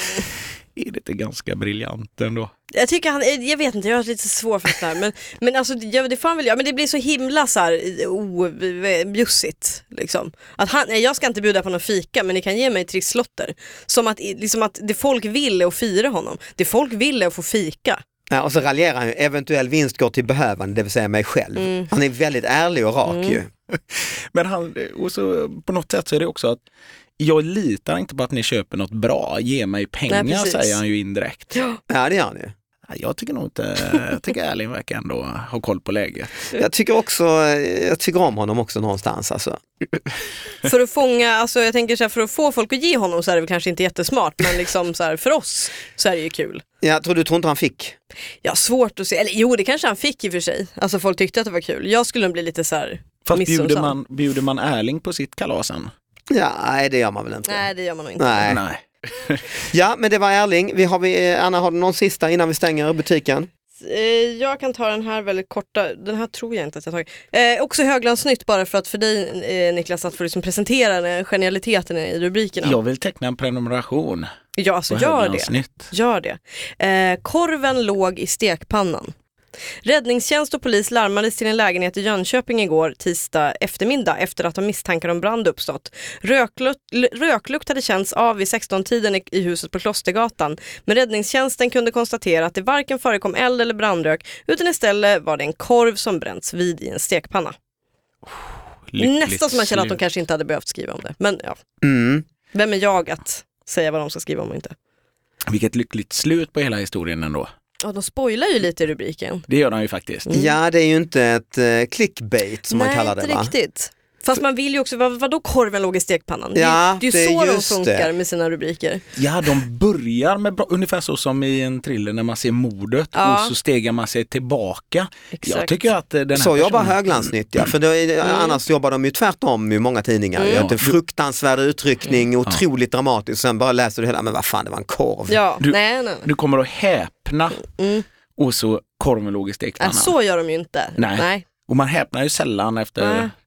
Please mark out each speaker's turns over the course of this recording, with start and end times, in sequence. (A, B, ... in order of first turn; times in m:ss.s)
0:00.8-0:02.5 A
0:02.7-0:18.0 B
0:18.3-0:23.5 C
0:21.6-0:21.9 B
0:23.0-0:23.4 B
0:23.7-0:26.6 A
0:27.2-0:31.6 A
0:30.1-0:30.8 B
0:31.5-0:31.8 B
0:31.9-0:32.5 C
0:32.9-0:36.4 A
0:36.5-0:39.6 C
0:40.6-0:46.6 B
0:46.8-0:48.0 C
0:48.4-0:53.9 B
0:53.3-0:55.9 A
0:56.3-0:57.7 C
0:57.5-0:58.5 B
0:58.2-0:58.6 C
0:58.4-0:59.7 A
0:59.7-1:03.5 C
1:03.8-1:12.8 B
1:12.6-1:14.3 A
1:14.6-1:19.1 B
1:14.9-1:15.9 A
1:19.8-1:37.6 B
1:38.9-1:40.0 A
1:39.0-1:41.6 B
1:41.8-1:42.2 C
1:42.5-1:44.8 B
1:45.5-1:47.5 A
1:47.8-1:49.4 B
1:49.5-1:50.3 A
1:50.3-1:50.5 B
1:50.3-1:53.5 C
1:52.7-1:59.0 B
1:56.6-1:58.1 C
1:59.2-2:07.7 A
2:03.1-2:03.5 B
2:05.3-2:05.9 B
2:06.3-2:15.4 C
2:08.2-2:08.6 B
2:10.4-2:10.7 B
2:10.5-2:11.0 A
2:15.3-2:16.3 B
2:15.6-2:17.7 A
2:17.6-2:18.0 B
2:18.4-2:20.1 A
2:19.8-2:21.4 B
2:21.0-2:23.3 A
2:23.0-2:23.3 B